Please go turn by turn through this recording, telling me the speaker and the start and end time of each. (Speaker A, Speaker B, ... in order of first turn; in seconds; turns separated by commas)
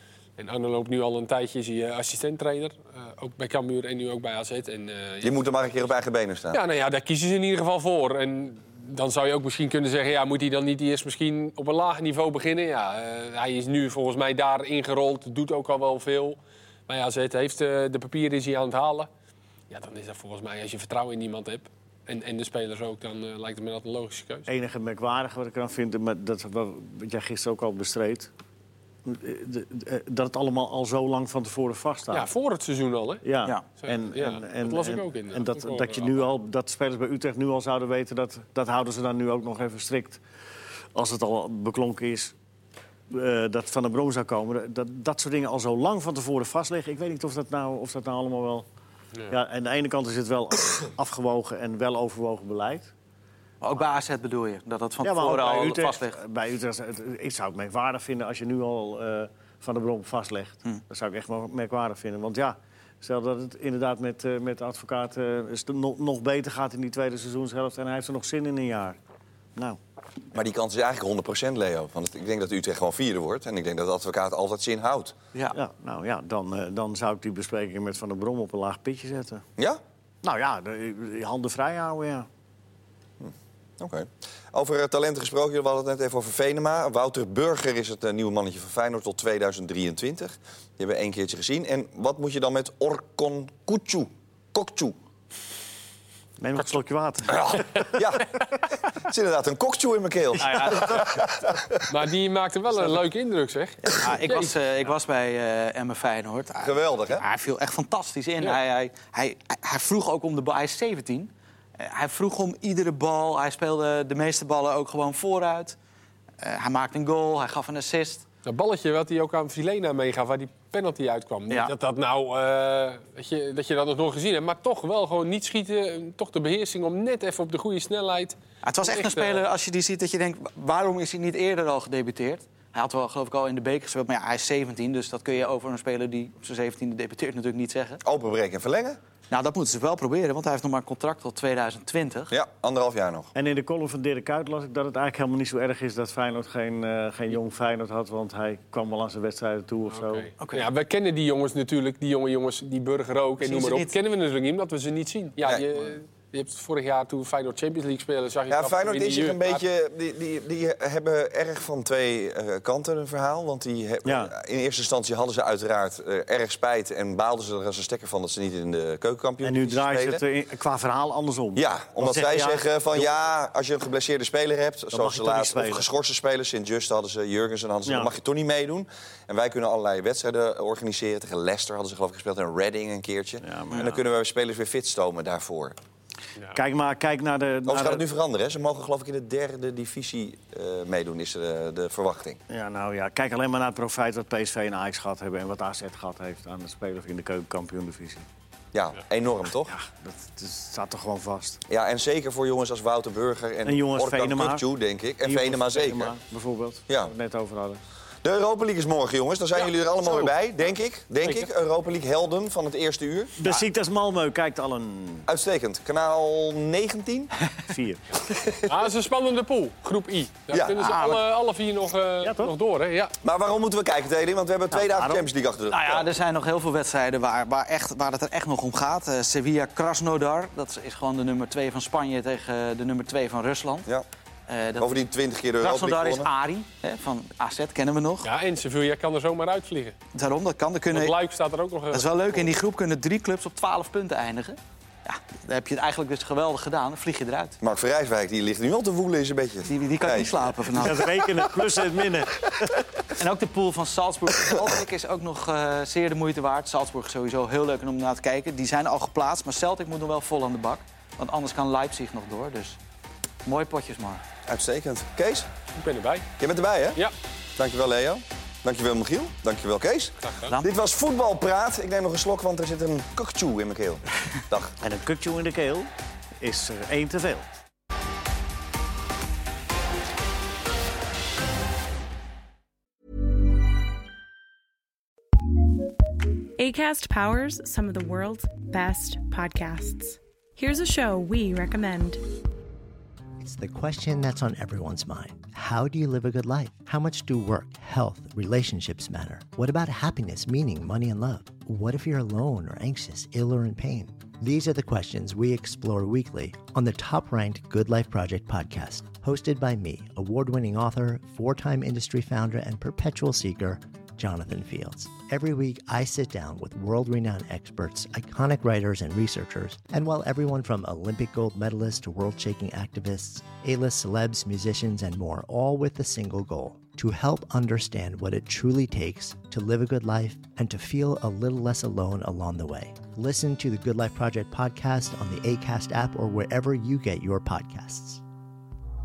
Speaker A: 0.4-5.6, Speaker B: 5.2-6.6, Speaker A: 6.5-19.1, Speaker A: 19.7-24.5, Speaker C: 24.5-28.3, Speaker C: 29.0-32.3, Speaker A: 32.1-33.2, Speaker C: 33.2-40.2, Speaker A: 33.8-36.3, Speaker C: 40.9-42.3, Speaker C: 43.1-48.6, Speaker C: 49.3-52.9, Speaker D: 53.6-56.2, Speaker C: 55.0-69.0, Speaker B: 70.3-75.1, Speaker C: 75.5-79.4, Speaker C: 80.2-82.3, Speaker B: 83.2-95.0, Speaker C: 96.4-97.8, Speaker B: 97.3-101.8, Speaker D: 100.4-101.1, Speaker A: 101.8-104.5, Speaker D: 103.8-115.8, Speaker B: 106.6-107.2, Speaker D: 116.4-118.2, Speaker A: 118.4-129.4, Speaker D: 128.6-138.0, Speaker B: 138.0-139.0, Speaker D: 139.3-142.3, Speaker B: 142.3-143.3, Speaker C: 143.3-150.3, Speaker A: 149.9-159.6, Speaker D: 150.4-150.7, Speaker D: 153.4-153.9, Speaker B: 158.5-170.2, Speaker C: 164.0-164.3, Speaker C: 169.4-173.1, Speaker B: 171.5-185.8, Speaker C: 174.9-175.8, Speaker C: 177.8-178.1, Speaker C: 183.4-184.0, Speaker C: 186.5-188.0, Speaker B: 187.7-192.4, Speaker C: 192.5-198.3, Speaker B: 198.7-199.7, Speaker C: 199.7-201.6, Speaker B: 201.7-206.1, Speaker C: 203.6-204.7, Speaker C: 205.2-207.8, Speaker B: 208.2-213.3, Speaker C: 213.4-215.3, Speaker B: 215.3-217.3, Speaker C: 217.7-218.0, Speaker A: 218.6-223.1, Speaker B: 220.5-220.8, Speaker D: 220.8-221.2, Speaker C: 222.2-222.5, Speaker B: 223.2-226.1, Speaker C: 224.7-225.2, Speaker D: 225.7-233.9, Speaker D: 234.5-235.0, Speaker B: 234.8-236.3, Speaker D: 235.6-238.3, Speaker A: 238.2-239.9, Speaker D: 240.1-241.2, Speaker A: 240.9-242.5, Speaker D: 241.9-247.6, Speaker B: 247.6-250.9, Speaker D: 249.7-251.2, Speaker C: 250.7-252.8, Speaker D: 253.1-262.8, Speaker B: 254.4-254.7, Speaker D: 263.4-264.2, Speaker B: 264.4-265.5, Speaker A: 265.7-266.2, Speaker B: 266.4-267.0, Speaker B: 267.6-274.8, Speaker A: 270.2-270.5, Speaker C: 274.8-277.5, Speaker E: 286.6-292.2, Speaker F: 293.4-338.2